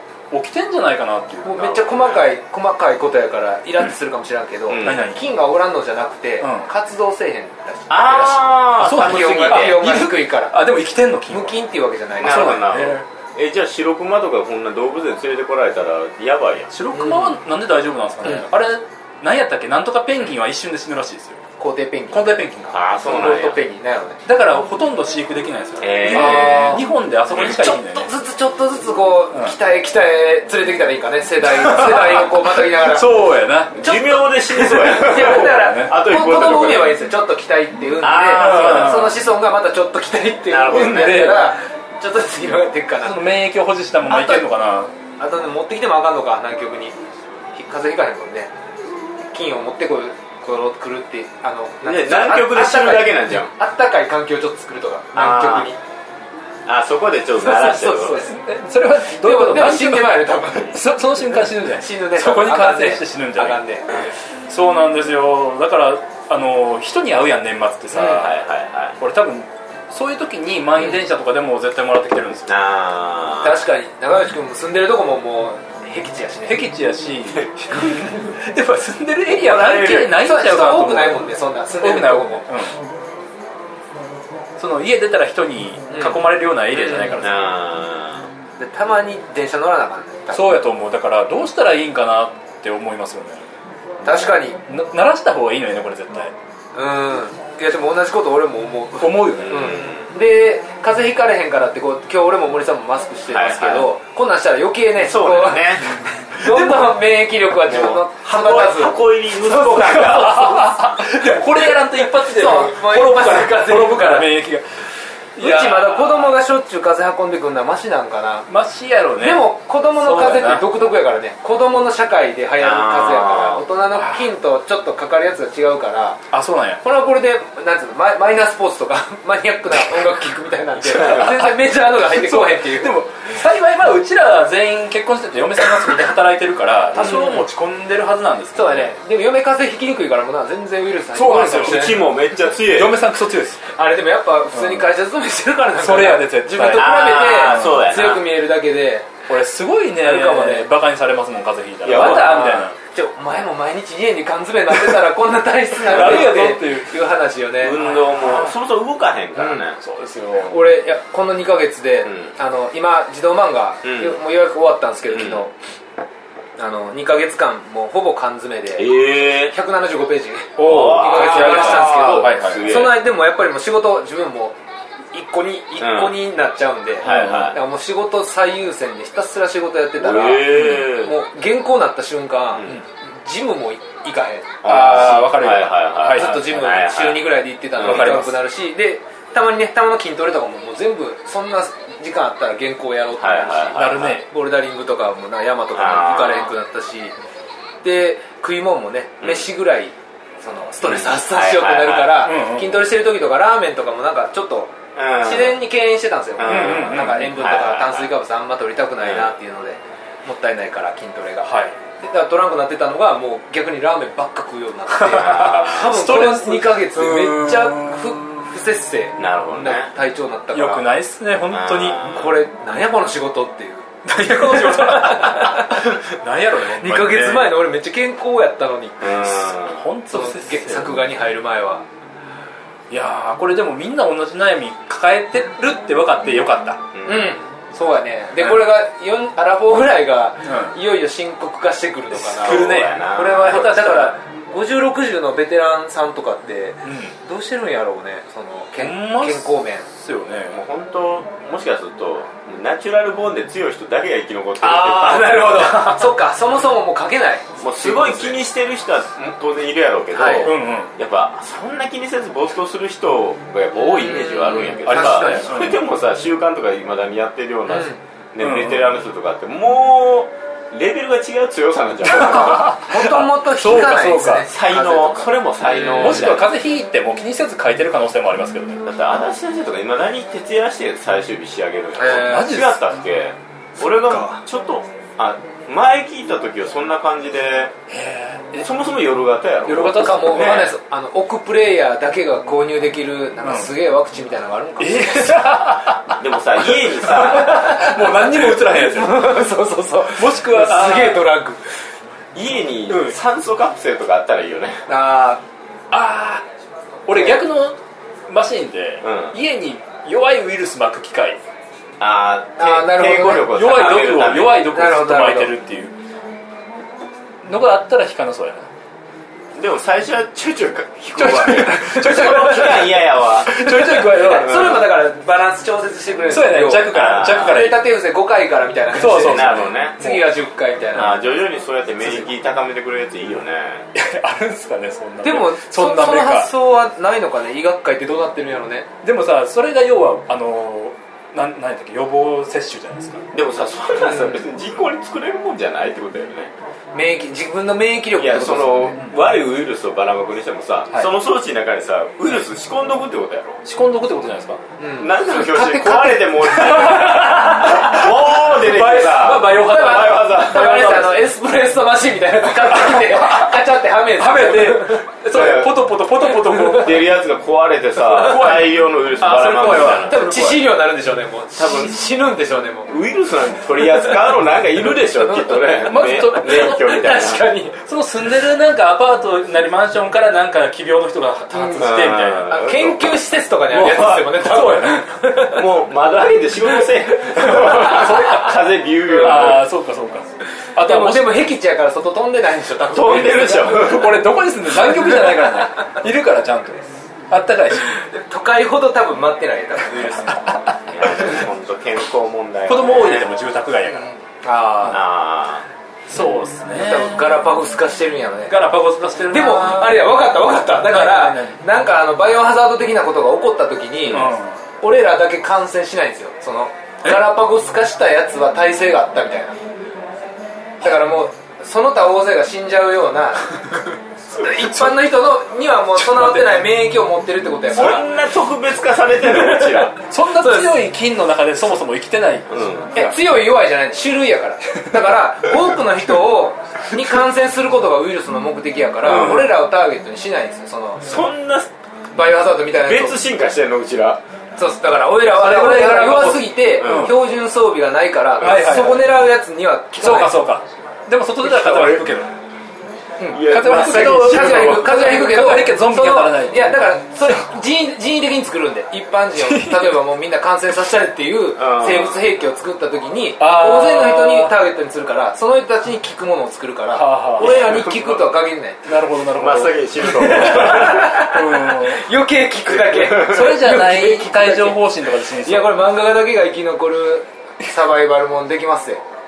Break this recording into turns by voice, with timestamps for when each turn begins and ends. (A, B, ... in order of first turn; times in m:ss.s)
0:00.3-0:01.8 A
0:01.4-0:10.6 B
0:01.6-0:02.2 C
0:04.7-0:05.0 C
0:04.8-0:05.2 A
0:06.4-0:06.7 A
0:07.9-0:10.0 C
0:08.8-0:11.6 A
0:11.3-0:12.6 B
0:12.2-0:16.7 C
0:12.2-0:13.0 A
0:16.7-0:21.4 A
0:16.9-0:17.4 B
0:21.6-0:22.4 B
0:22.1-0:22.8 A
0:22.7-0:23.6 C
0:23.0-0:24.2 B
0:24.3-0:28.1 A
0:25.8-0:26.8 C
0:26.0-0:26.8 B
0:27.4-0:33.1 B
0:31.5-0:33.8 A
0:33.8-0:37.0 C
0:33.8-0:43.3 B
0:34.7-0:36.0 A
0:38.0-0:39.1 C
0:38.3-0:39.2 A
0:40.5-0:41.3 C
0:40.7-0:41.6 A
0:43.0-0:44.9 A
0:44.1-0:44.5 B
0:45.2-0:47.0 B
0:47.5-0:48.5 B
0:49.3-0:55.8 B
0:51.8-0:53.5 C
0:55.1-0:55.7 C
0:56.7-0:58.2 C
0:57.4-0:58.4 B
0:58.1-1:03.6 A
0:59.1-1:03.9 B
1:04.5-1:08.4 A
1:07.9-1:08.2 B
1:08.0-1:09.0 C
1:09.0-1:12.6 A
1:12.5-1:13.6 C
1:13.4-1:16.6 B
1:16.5-1:22.8 A
1:19.5-1:22.4 B
1:19.5-1:20.0 C
1:24.6-1:27.5 A
1:25.9-1:27.2 B
1:27.2-1:28.3 C
1:28.6-1:30.6 B
1:30.3-1:33.4 A
1:34.0-1:34.6 B
1:34.7-1:36.3 A
1:36.8-1:50.2 B
1:39.0-1:39.8 A
1:39.4-1:40.1 C
1:43.3-1:43.9 C
1:45.0-1:46.0 C
1:46.4-1:47.0 A
1:47.7-1:50.8 C
1:49.5-1:54.8 A
1:52.1-1:54.3 B
1:55.4-1:56.4 A
1:55.4-1:58.5 B
1:58.5-2:00.7 A
1:59.2-2:06.2 B
2:02.6-2:03.6 C
2:06.3-2:06.8 A
2:06.8-2:13.0 B
2:10.8-2:18.9 A
2:17.0-2:17.4 B
2:18.6-2:22.0 B
2:21.1-2:22.0 A
2:21.5-2:23.0 C
2:22.6-2:23.7 A
2:23.7-2:29.1 B
2:24.6-2:24.8 A
2:25.8-2:27.8 A
2:26.6-2:28.2 C
2:29.3-2:32.8 A
2:30.0-2:30.7 B
2:31.8-2:32.7 C
2:31.9-2:37.8 B
2:35.8-2:37.0 A
2:36.0-2:36.2 C
2:37.6-2:39.8 C
2:37.7-2:38.5 A
2:39.8-2:40.6 A
2:40.5-2:45.5 B
2:43.8-2:44.2 C
2:45.1-2:45.4 C
2:46.6-2:54.6 B
2:48.8-2:49.6 C
2:50.6-2:53.0 A
2:50.6-2:53.0 C
2:55.1-3:05.1 B
2:55.8-2:56.2 C
2:57.0-2:57.6 C
2:57.0-2:57.5 A
3:00.0-3:01.2 C
3:00.5-3:00.9 A
3:04.6-3:08.2 C
3:04.6-3:06.6 A
3:06.1-3:17.1 B
3:07.8-3:08.4 A
3:13.2-3:14.2 C
3:13.8-3:14.2 A
3:15.7-3:16.5 C
3:17.8-3:40.9 B
3:19.2-3:19.5 C
3:20.8-3:22.3 C
3:22.2-3:22.8 A
3:25.0-3:25.6 C
3:26.4-3:28.1 C
3:26.4-3:27.3 A
3:29.0-3:29.4 C
3:31.4-3:31.8 A
3:34.9-3:38.4 A
3:35.0-3:35.9 C
3:39.2-3:39.9 C
3:40.5-3:42.0 A
3:41.5-3:42.3 C
3:42.0-3:46.0 B
3:44.0-3:47.6 A
3:46.8-3:49.5 B
3:49.0-3:49.8 C
3:49.8-3:51.0 A
3:50.1-3:51.8 B
3:52.9-3:56.8 A
3:56.9-3:57.4 C
3:57.1-4:09.9 B
3:58.4-3:58.7 A
4:00.4-4:00.8 A
4:02.2-4:04.2 A
4:02.4-4:03.7 C
4:06.8-4:07.1 A
4:08.8-4:10.6 A
4:10.5-4:15.8 C
4:14.6-4:18.4 B
4:15.7-4:16.0 A
4:17.6-4:32.8 C
4:20.1-4:20.5 B
4:20.4-4:20.9 A
4:23.8-4:25.7 B
4:24.9-4:25.8 A
4:27.7-4:28.0 B
4:28.4-4:28.9 A
4:32.1-4:34.5 A
4:32.6-4:36.4 B
4:34.5-4:36.5 C
4:35.9-4:38.8 A
4:38.8-4:47.7 C
4:42.0-4:42.6 B
4:42.1-4:42.8 A
4:44.1-4:44.4 B
4:47.9-4:48.6 A
4:48.6-4:50.7 C
4:49.6-4:50.7 A
4:49.9-4:55.8 B
4:53.4-4:53.7 A
4:54.8-4:59.5 A
4:56.1-4:57.7 C
4:57.3-5:01.6 B
5:00.1-5:01.3 A
5:02.3-5:04.9 C
5:02.9-5:03.2 A
5:04.9-5:05.4 B
5:05.9-5:06.4 A
5:07.1-5:07.8 A
5:08.3-5:11.4 A
5:09.0-5:09.4 C
5:12.0-5:14.7 C
5:12.6-5:13.6 B
5:13.4-5:15.9 A
5:14.7-5:15.5 B
5:17.4-5:18.7 A
5:19.6-5:23.7 C
5:21.2-5:24.8 A
5:21.9-5:22.9 B
5:23.5-5:31.3 B
5:24.3-5:24.8 C
5:26.3-5:27.9 A
5:26.9-5:27.8 C
5:28.9-5:30.3 A
5:29.2-5:30.0 C
5:30.9-5:33.9 C
5:34.0-5:36.5 A
5:35.2-5:38.9 B
5:39.0-5:43.3 A
5:43.3-5:46.5 C
5:44.1-5:44.4 B
5:46.9-5:49.0 B
5:48.2-5:53.6 C
5:53.6-5:54.6 A
5:54.8-5:57.6 B
5:55.0-6:01.0 C
5:56.6-6:01.3 A
5:59.5-6:05.1 B
6:02.6-6:03.6 A
6:04.2-6:07.1 A
6:05.3-6:05.9 C
6:06.6-6:10.2 C
6:08.1-6:10.6 A
6:10.0-6:12.9 B
6:11.6-6:12.0 C
6:12.9-6:17.5 C
6:13.9-6:14.2 B
6:15.3-6:15.6 B
6:15.8-6:17.1 A
6:16.4-6:17.8 B
6:17.8-6:22.6 A
6:21.5-6:25.6 B
6:21.8-6:24.4 C
6:24.3-6:25.1 A
6:25.5-6:29.6 C
6:27.4-6:31.4 A
6:30.8-6:33.9 B
6:32.9-6:34.3 C
6:33.6-6:37.9 A
6:34.8-6:35.5 B
6:37.9-6:40.5 B
6:40.9-6:43.3 C
6:42.7-6:44.1 A
6:44.4-6:45.0 B
6:44.9-6:45.7 C
6:46.1-6:47.3 A
6:46.7-6:48.6 B
6:48.5-6:50.1 A
6:49.3-6:59.6 B
6:50.9-6:51.6 A
6:54.1-6:54.6 A
7:00.8-7:03.6 B
7:04.3-7:08.1 B
7:04.4-7:05.1 A
7:06.0-7:06.7 A
7:07.7-7:10.0 C
7:09.9-7:13.1 A
7:10.3-7:10.8 B
7:12.5-7:12.9 C
7:12.9-7:21.2 B
7:19.1-7:19.5 C
7:19.1-7:19.5 A
7:21.0-7:21.7 C
7:22.1-7:23.2 B
7:22.8-7:24.2 C
7:24.6-7:30.4 B
7:25.3-7:27.2 A
7:26.8-7:27.1 C
7:28.4-7:29.2 A
7:30.0-7:32.3 A
7:31.5-7:32.0 C
7:31.6-7:31.9 B
7:33.2-7:48.9 B
7:33.3-7:35.0 C
7:33.4-7:37.4 A
7:39.4-7:39.9 A
7:41.6-7:42.2 C
7:43.4-7:44.6 A
7:47.0-7:47.8 A
7:47.4-7:48.3 C
7:48.9-7:52.1 A
7:49.4-7:51.2 C
7:50.0-7:59.0 B
7:53.0-7:55.8 A